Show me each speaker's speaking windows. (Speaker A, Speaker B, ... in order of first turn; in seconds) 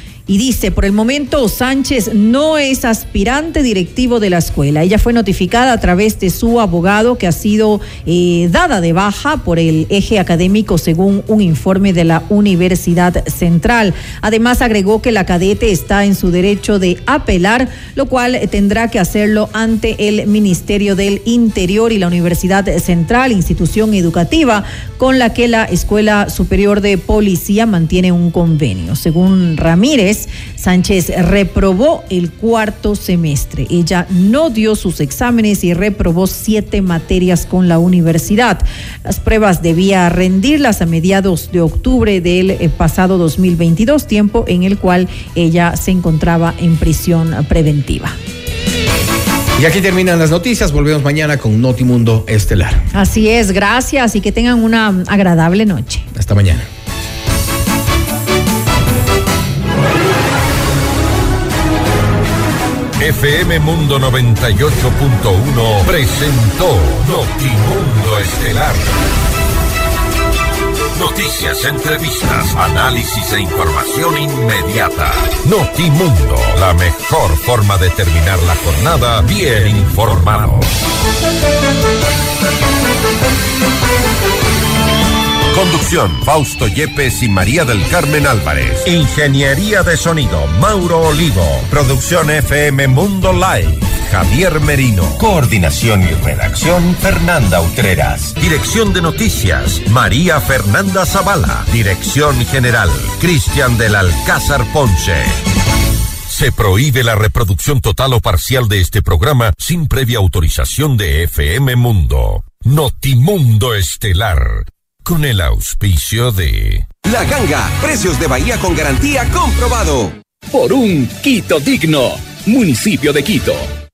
Speaker A: 0.3-48.2, 52.9-56.1
Speaker B: 49.6-52.8, 56.1-56.7
Speaker C: 63.0-68.9, 70.9-80.7, 85.5-105.4, 106.3-116.8
Speaker D: 117.0-120.1
Speaker E: 120.5-123.7